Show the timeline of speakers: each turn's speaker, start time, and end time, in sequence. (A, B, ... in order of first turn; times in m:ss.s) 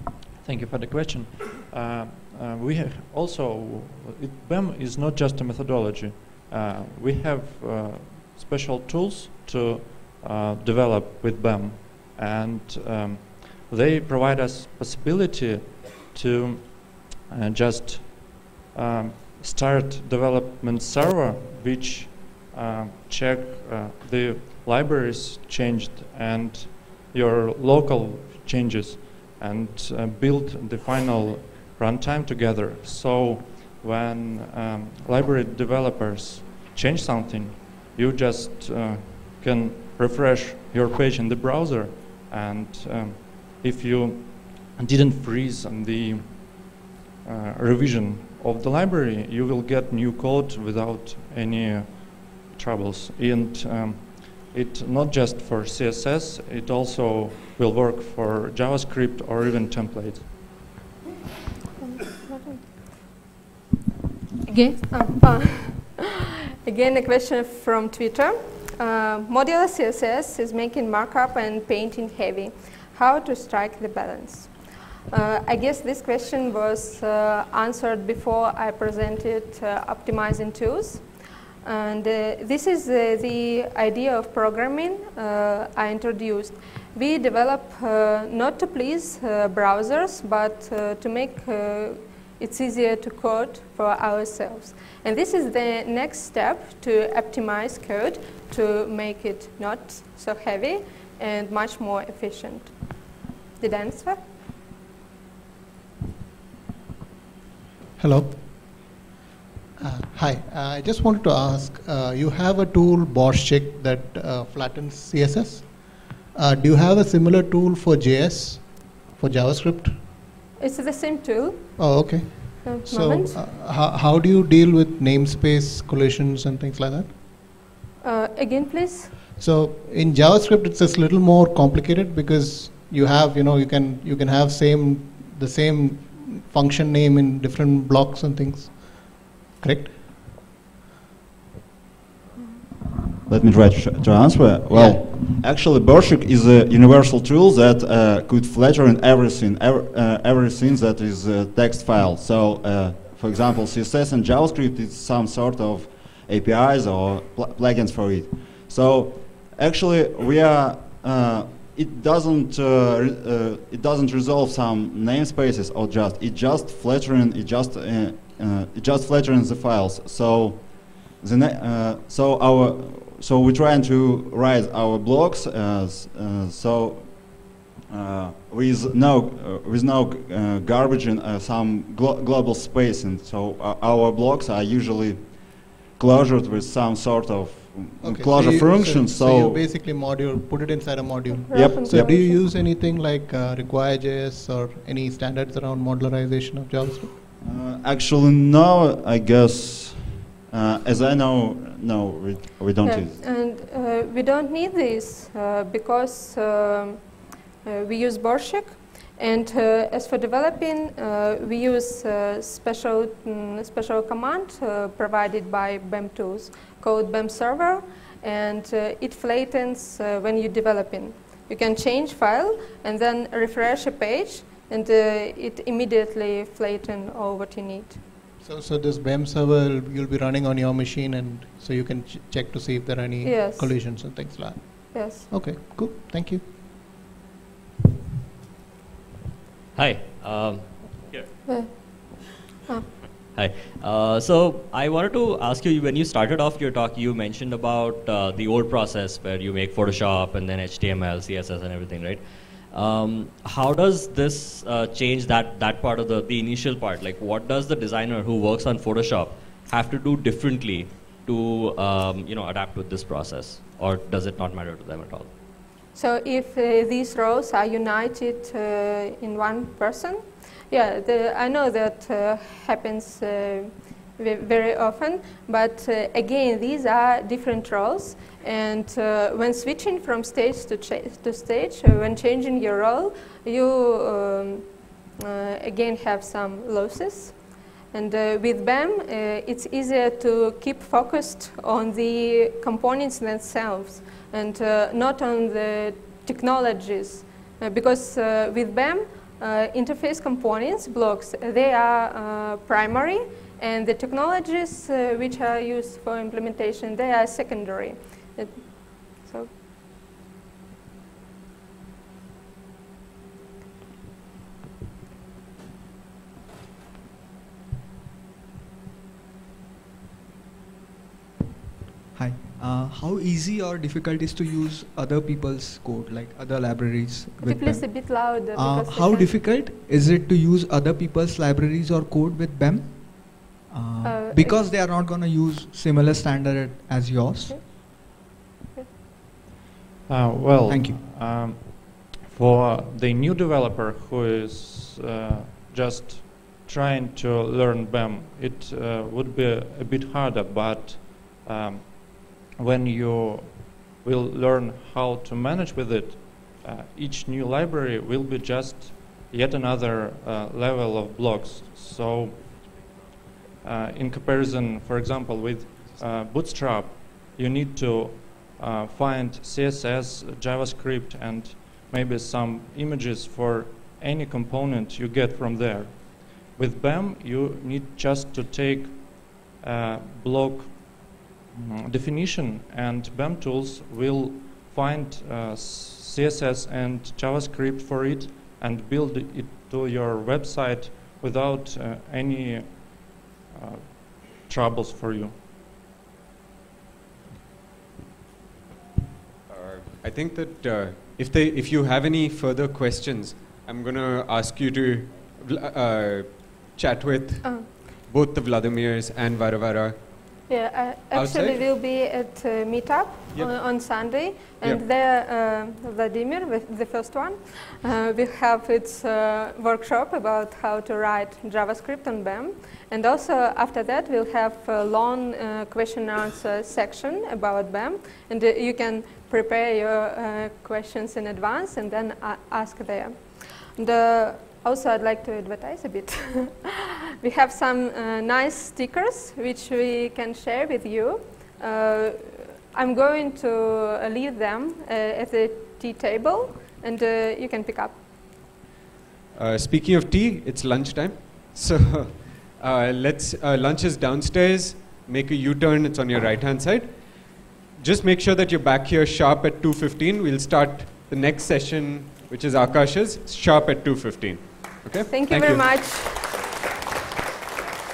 0:00.2-1:00.5 A
1:01.8-1:02.7 B
1:04.5-1:21.0 B
1:21.6-1:42.8 B
1:43.6-1:44.2 B
1:48.0-1:49.0 C
1:49.8-2:00.0 C
2:00.6-2:03.4 B
2:01.8-2:07.2 C
2:08.0-2:09.2 B
2:09.4-2:20.2 C
2:23.3-3:09.6 D
2:24.7-2:25.0 C
3:08.0-3:17.2 C
3:11.3-3:12.5 B
3:11.5-3:12.2 D
3:17.4-3:23.2 D
3:22.8-3:27.0 B
3:27.6-3:48.0 B
3:48.4-3:56.4 C
3:53.2-3:53.8 B
3:54.9-3:55.3 B
3:59.7-4:01.0 E
4:01.5-4:02.9 B
4:03.3-4:25.3 E
4:25.9-4:44.7 B
4:45.2-5:09.5 B
5:22.1-5:37.6 F
5:27.4-5:29.3 B
5:34.0-5:34.7 B
5:40.1-6:02.6 A
5:40.7-5:41.0 F
6:03.6-6:35.4 A
6:39.5-6:50.5 G
6:50.5-7:28.0 B
6:51.1-6:51.6 G
7:29.3-7:45.8 G
7:45.1-7:46.4 B